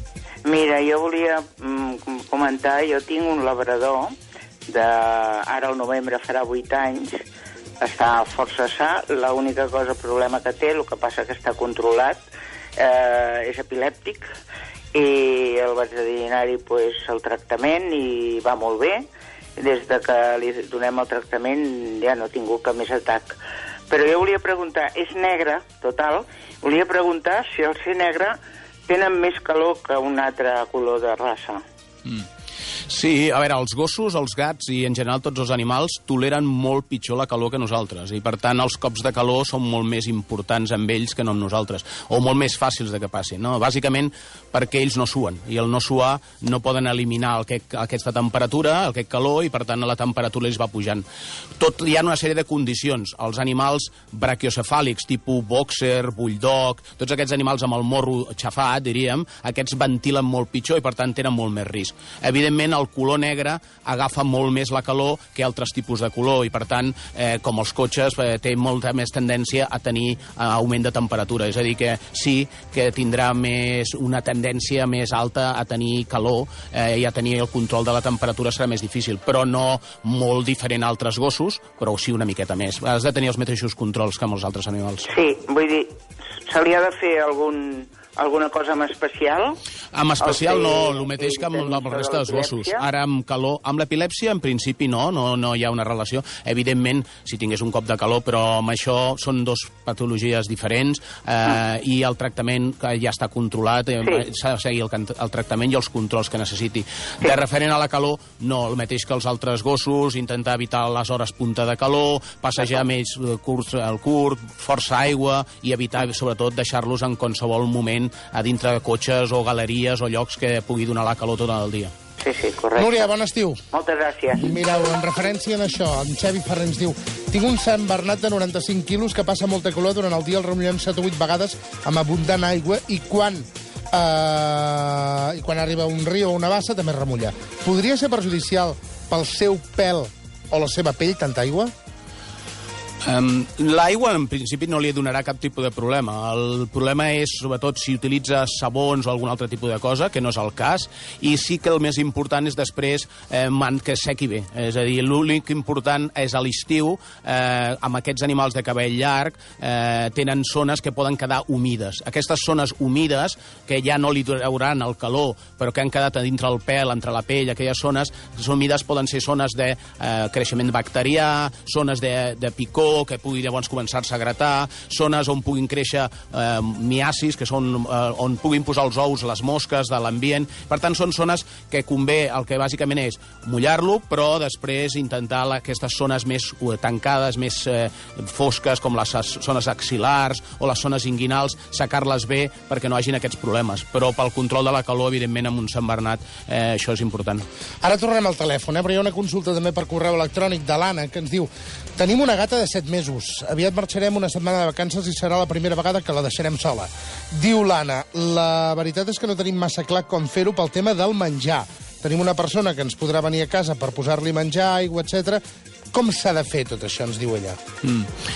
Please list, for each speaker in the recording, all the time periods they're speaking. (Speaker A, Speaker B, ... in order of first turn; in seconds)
Speaker A: 0.4-4.1, 4.7-7.2, 7.8-12.2, 12.8-14.3, 14.9-23.4, 23.9-31.6, 85.0-89.6, 90.2-92.8, 122.2-123.1, 123.7-124.5
Speaker B: 32.9-51.0, 51.6-85.1, 89.9-121.9, 143.0-197.5, 217.8-218.1
Speaker C: 122.7-123.6, 124.4-141.7, 197.8-215.4, 215.9-217.6